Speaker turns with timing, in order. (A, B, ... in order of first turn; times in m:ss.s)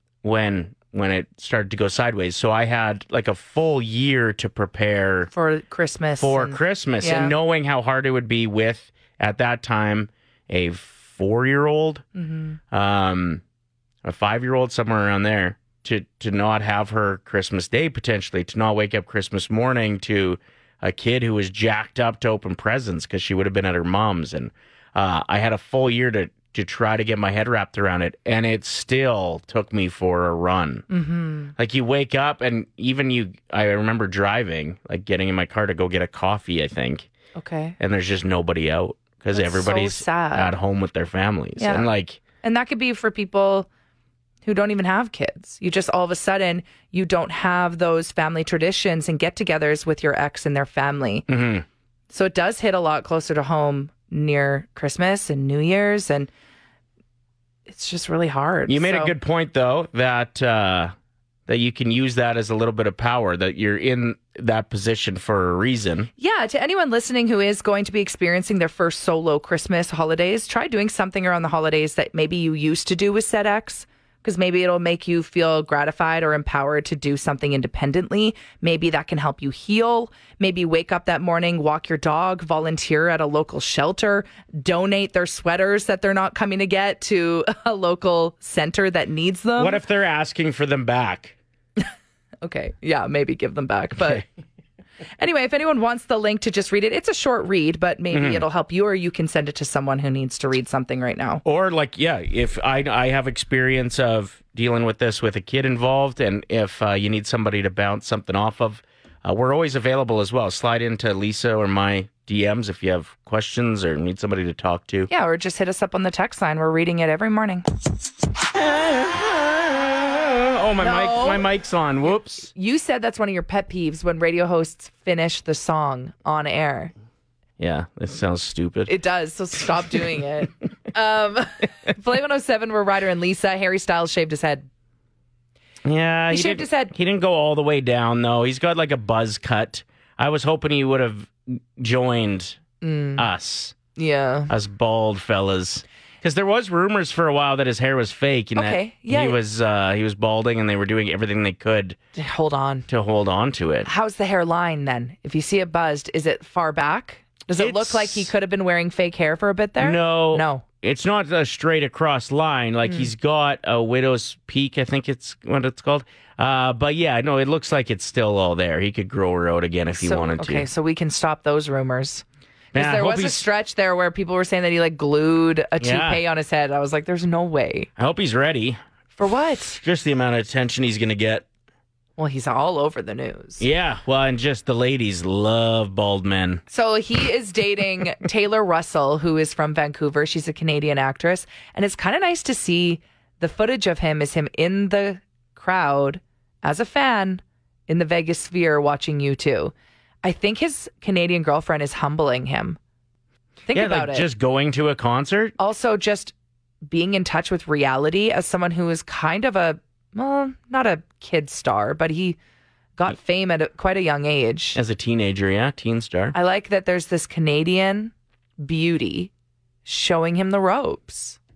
0:00.2-0:05.3 A
0:05.3-0:07.3 B
0:06.2-0:12.0 A
0:12.2-0:12.6 B
0:12.7-0:13.4 A
0:14.0-0:30.8 A
0:30.9-0:31.5 B
0:31.6-0:37.1 A
0:37.4-0:37.8 B
0:37.8-0:42.2 A
0:39.4-0:40.5 B
0:41.6-0:41.9 B
0:42.4-0:43.7 B
0:44.4-0:51.3 B
0:51.3-0:51.7 A
0:52.1-0:56.3 B
0:57.7-0:59.1 B
0:58.7-1:00.9 A
1:01.5-1:06.1 A
1:06.2-1:29.8 B
1:29.6-1:31.4 A
1:32.4-1:34.2 B
1:35.2-1:41.4 B
1:38.1-1:38.4 A
1:41.4-1:55.1 A
1:55.1-1:57.7 B
1:58.5-2:02.5 A
2:00.8-2:01.5 B
2:02.5-2:06.9 B
2:07.6-2:09.0 A
2:08.9-2:14.7 B
2:15.8-2:22.6 A
2:16.3-2:16.9 B
2:22.8-2:23.3 B
2:23.2-2:23.8 A
2:24.0-2:24.5 B
2:24.5-2:32.0 A
2:28.6-2:29.4 B
2:32.2-2:32.9 B
2:32.9-2:33.9 A
2:33.8-2:40.6 B
2:37.6-2:38.3 A
2:39.8-2:50.7 A
2:42.8-2:43.1 B
2:50.0-2:57.9 B
2:52.7-2:53.5 A
2:55.8-2:56.2 A
2:58.0-2:58.8 A
2:59.2-2:59.8 B
2:59.7-3:01.5 A
3:02.2-3:03.6 B
3:03.6-3:06.6 A
3:06.7-3:22.8 B
3:23.7-3:24.3 B
3:23.7-3:25.6 A
3:25.6-3:26.3 B
3:26.8-3:32.4 B
3:33.0-3:34.8 B
3:34.8-3:36.4 A
3:36.3-3:39.3 B
3:39.8-3:41.4 B